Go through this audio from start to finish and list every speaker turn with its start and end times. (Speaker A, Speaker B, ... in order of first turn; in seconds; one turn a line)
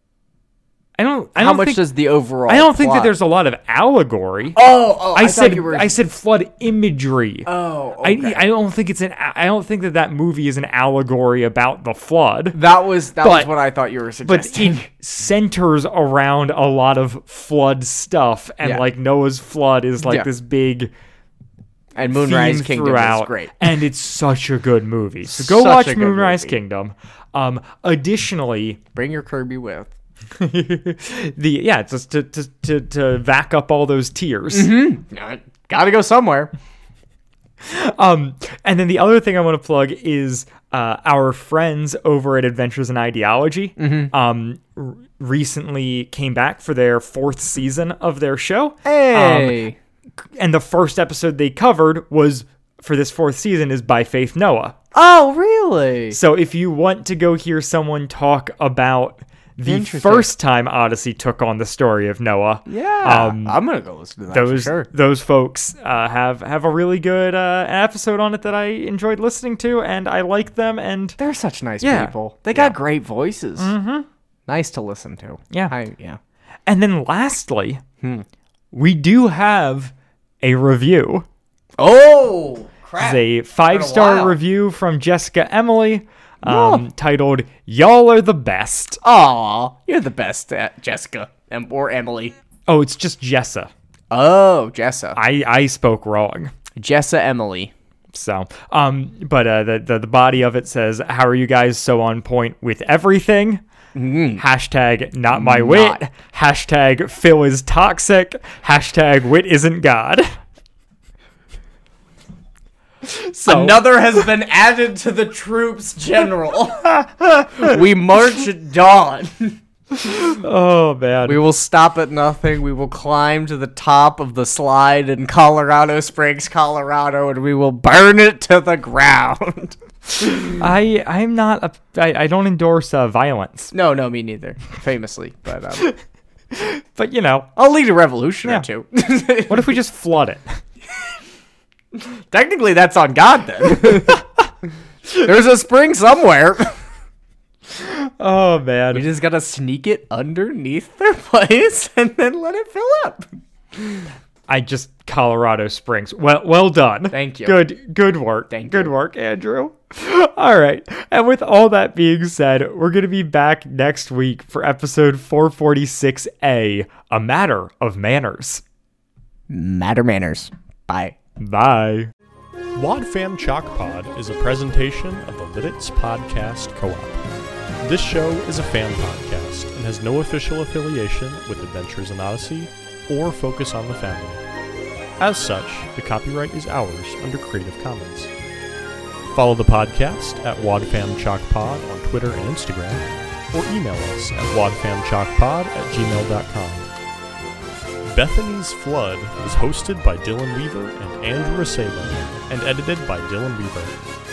Speaker A: 1.0-1.9
Speaker B: 1.4-3.1
Speaker A: 2.5-4.6
Speaker B: 4.5-5.9
Speaker A: 5.1-7.5
Speaker B: 7.5-8.4
Speaker A: 8.0-12.6
Speaker B: 12.5-14.9
Speaker A: 13.2-13.5
Speaker A: 14.2-20.9
Speaker B: 20.0-20.3
Speaker B: 21.9-23.6
Speaker A: 22.1-28.8
Speaker B: 25.2-26.6
Speaker B: 28.9-29.9
Speaker A: 30.4-34.7
Speaker B: 34.5-36.5
Speaker A: 37.6-49.6
Speaker B: 43.8-44.1
Speaker B: 48.9-49.8
Speaker A: 50.2-54.8
Speaker B: 54.9-56.2
Speaker A: 56.1-63.6
Speaker B: 59.6-60.3
Speaker B: 62.7-64.9
Speaker A: 64.3-71.2
Speaker B: 71.2-73.7
Speaker A: 71.8-72.8
Speaker A: 73.6-74.1
Speaker B: 74.5-76.2
Speaker A: 76.7-77.8
Speaker B: 78.0-78.3
Speaker A: 78.7-81.3
Speaker B: 81.8-84.4
Speaker A: 83.0-89.0
Speaker B: 86.4-86.8
Speaker B: 89.0-92.3
Speaker A: 92.7-93.7
Speaker B: 94.1-95.2
Speaker A: 95.2-96.5
Speaker B: 96.8-97.7
Speaker A: 98.1-103.6
Speaker B: 104.0-104.4
Speaker A: 104.4-110.3
Speaker B: 105.3-106.1
Speaker A: 113.0-113.9
Speaker B: 113.5-116.9
Speaker A: 117.0-117.7
Speaker B: 117.5-119.6
Speaker A: 119.9-121.4
Speaker B: 121.3-129.8
Speaker A: 130.6-133.7
Speaker B: 133.7-135.9
Speaker A: 136.5-137.5
Speaker B: 137.6-139.7
Speaker A: 139.5-140.6
Speaker B: 141.9-144.3
Speaker B: 145.2-146.8
Speaker A: 147.8-149.1
Speaker B: 148.9-153.3
Speaker A: 154.5-168.6
Speaker B: 157.1-157.6
Speaker B: 158.5-158.9
Speaker B: 169.5-171.2
Speaker A: 171.4-172.1
Speaker C: 172.8-177.2
Speaker C: 177.8-184.4
Speaker C: 185.2-188.3
Speaker C: 189.3-196.9
Speaker C: 198.1-204.0